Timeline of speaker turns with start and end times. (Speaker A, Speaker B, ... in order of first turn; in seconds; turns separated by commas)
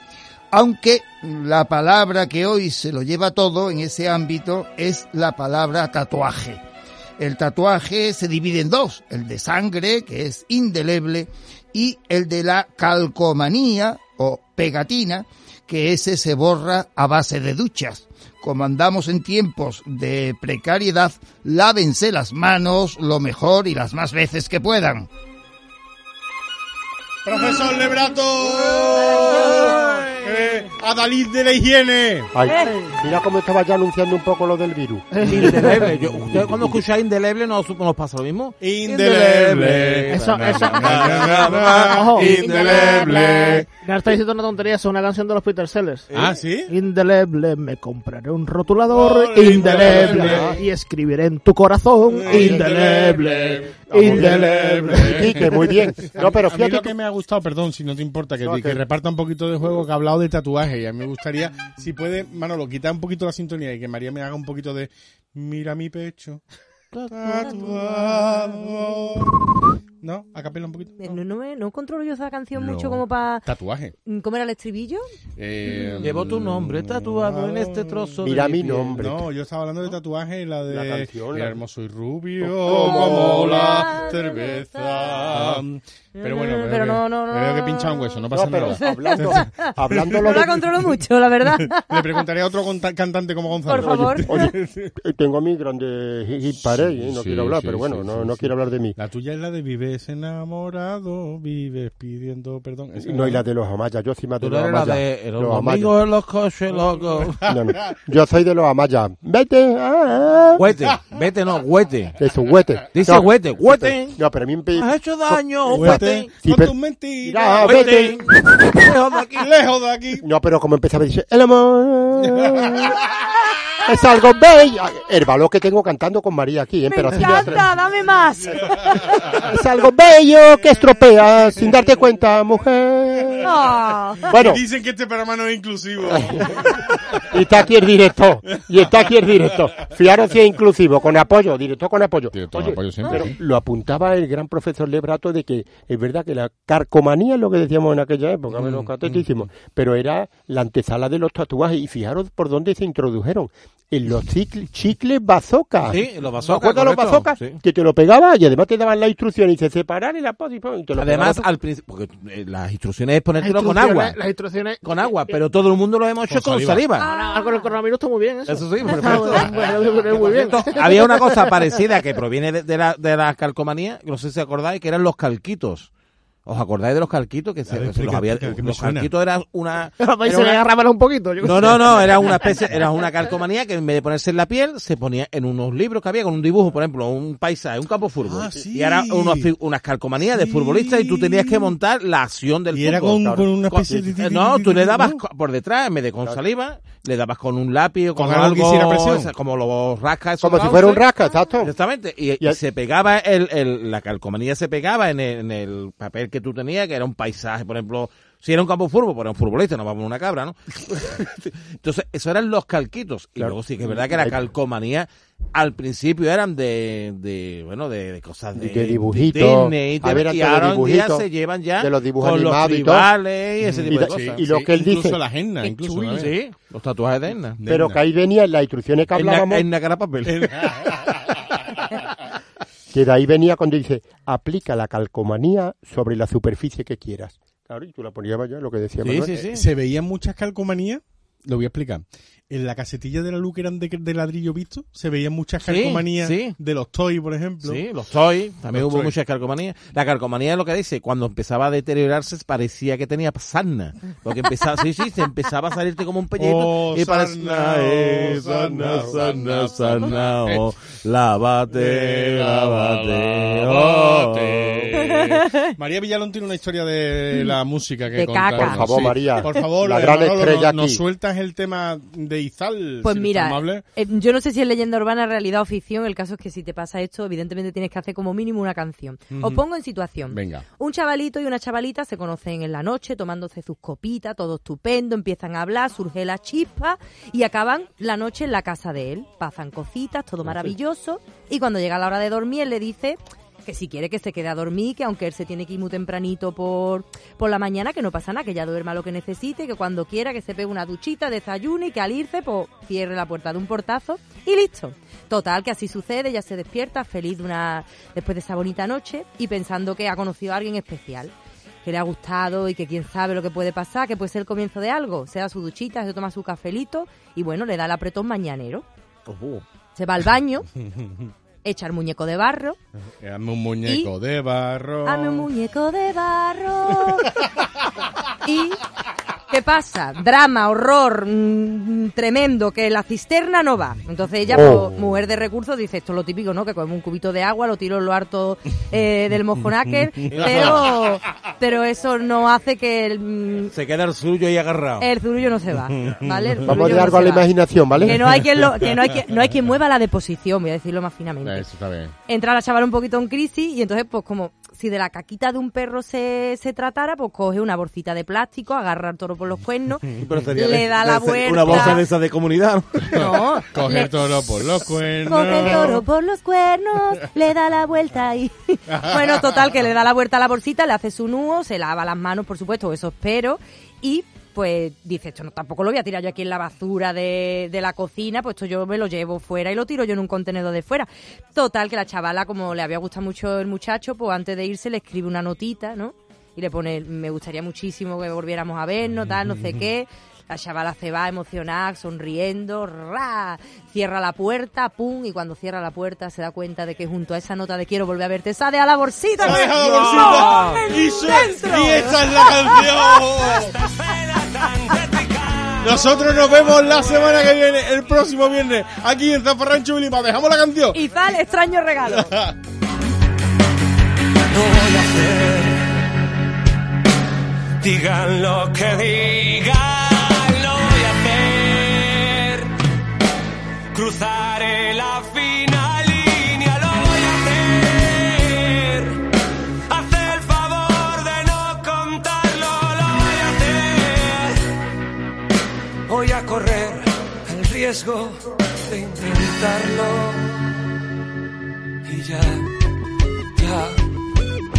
Speaker A: 0.5-6.6, Speaker A: 7.2-25.1, Speaker B: 27.2-32.3, Speaker C: 29.2-29.7, Speaker D: 29.5-30.0, Speaker E: 32.3-35.5, Speaker C: 32.5-32.9, Speaker F: 35.1-35.9, Speaker D: 35.2-41.9, Speaker E: 36.2-36.8, Speaker B: 38.6-43.7, Speaker F: 40.1-42.5, Speaker C: 42.2-43.6, Speaker F: 43.7-46.1, Speaker D: 46.1-46.4, Speaker B: 46.1-46.7, Speaker F: 46.7-55.3, Speaker B: 48.9-50.5, Speaker E: 49.6-50.6, Speaker B: 52.1-66.4, Speaker E: 52.3-53.0, Speaker E: 53.9-57.0, Speaker E: 58.4-58.8, Speaker D: 66.9-67.8, Speaker B: 67.1-69.4, Speaker B: 70.0-71.2, Speaker C: 71.0-73.5, Speaker B: 72.5-74.0, Speaker C: 74.0-75.1, Speaker B: 75.4-78.2, Speaker D: 76.0-78.9, Speaker E: 78.2-79.3, Speaker B: 79.0-90.2, Speaker E: 80.7-81.6, Speaker E: 82.4-83.9, Speaker C: 82.8-85.3, Speaker C: 86.2-88.2, Speaker E: 88.3-90.7, Speaker C: 88.8-92.2, Speaker B: 91.4-94.9, Speaker C: 93.7-94.5, Speaker E: 93.8-99.0, Speaker B: 96.6-103.4, Speaker E: 103.0-106.0, Speaker D: 104.4-107.5, Speaker E: 107.4-110.7, Speaker D: 110.6-112.2, Speaker E: 112.2-118.8, Speaker D: 112.9-114.2, Speaker D: 114.8-116.3, Speaker B: 115.7-118.2, Speaker D: 117.6-119.5, Speaker B: 119.4-120.2, Speaker E: 120.2-123.0, Speaker B: 122.3-123.0, Speaker E: 123.9-127.7, Speaker C: 126.9-129.2, Speaker B: 128.7-129.4, Speaker E: 129.1-133.5, Speaker C: 133.4-134.3, Speaker E: 134.3-134.6, Speaker B: 134.3-137.2, Speaker E: 136.1-136.6, Speaker E: 137.2-161.5, Speaker B: 142.3-143.3, Speaker D: 155.9-157.6, Speaker D: 161.0-164.2, Speaker F: 163.4-165.4, Speaker D: 164.8-167.1, Speaker B: 166.3-166.8, Speaker C: 167.0-167.8, Speaker F: 167.1-171.5, Speaker D: 168.5-175.9, Speaker D: 176.5-180.6, Speaker B: 177.7-179.1, Speaker F: 180.0-182.6, Speaker D: 181.4-201.1, Speaker B: 188.3-189.5, Speaker B: 190.2-191.7, Speaker B: 192.7-195.2, Speaker E: 193.2-193.5, Speaker B: 198.2-199.3, Speaker E: 200.4-201.7, Speaker D: 201.6-224.7, Speaker E: 213.4-214.4, Speaker E: 218.6-221.3, Speaker E: 221.8-223.1, Speaker B: 223.7-226.3, Speaker E: 223.8-225.2, Speaker C: 225.6-226.2, Speaker D: 226.1-227.6, Speaker B: 227.6-228.0, Speaker E: 227.7-229.7, Speaker D: 229.2-230.9, Speaker B: 230.3-231.2, Speaker E: 232.9-239.5, Speaker D: 239.0-239.7, Speaker B: 239.5-247.8, Speaker D: 245.7-246.6, Speaker D: 247.6-264.9, Speaker B: 248.7-249.1, Speaker B: 256.4-260.7, Speaker B: 261.7-273.9, Speaker C: 265.0-265.7, Speaker C: 268.1-269.1, Speaker E: 268.6-271.0, Speaker C: 273.0-311.3, Speaker B: 279.3-279.6, Speaker B: 280.3-280.6, Speaker C: 311.8-318.9, Speaker D: 319.3-319.6, Speaker C: 320.0-320.7, Speaker C: 321.6-322.8, Speaker B: 323.2-325.5, Speaker C: 323.9-324.1, Speaker C: 325.1-327.5, Speaker C: 328.4-328.8, Speaker C: 329.5-343.7, Speaker E: 334.5-334.9, Speaker D: 340.3-340.9, Speaker B: 340.4-340.8, Speaker D: 343.7-345.1, Speaker C: 345.0-347.5, Speaker B: 345.9-346.9, Speaker E: 346.6-348.3, Speaker B: 348.0-349.2, Speaker C: 348.0-351.7, Speaker B: 351.4-352.1, Speaker C: 352.3-362.1, Speaker D: 360.2-363.3, Speaker C: 363.1-364.2, Speaker B: 363.2-366.0, Speaker C: 365.2-403.0, Speaker B: 368.9-369.4, Speaker B: 389.2-389.8, Speaker B: 399.4-403.8, Speaker D: 399.9-400.6, Speaker G: 403.4-407.4, Speaker B: 405.8-411.0, Speaker C: 410.9-412.4, Speaker B: 412.1-412.5, Speaker G: 414.5-416.0, Speaker G: 417.8-422.7, Speaker G: 423.9-429.2, Speaker G: 429.9-434.6, Speaker G: 436.1-440.6, Speaker G: 442.1-442.7, Speaker G: 443.6-444.0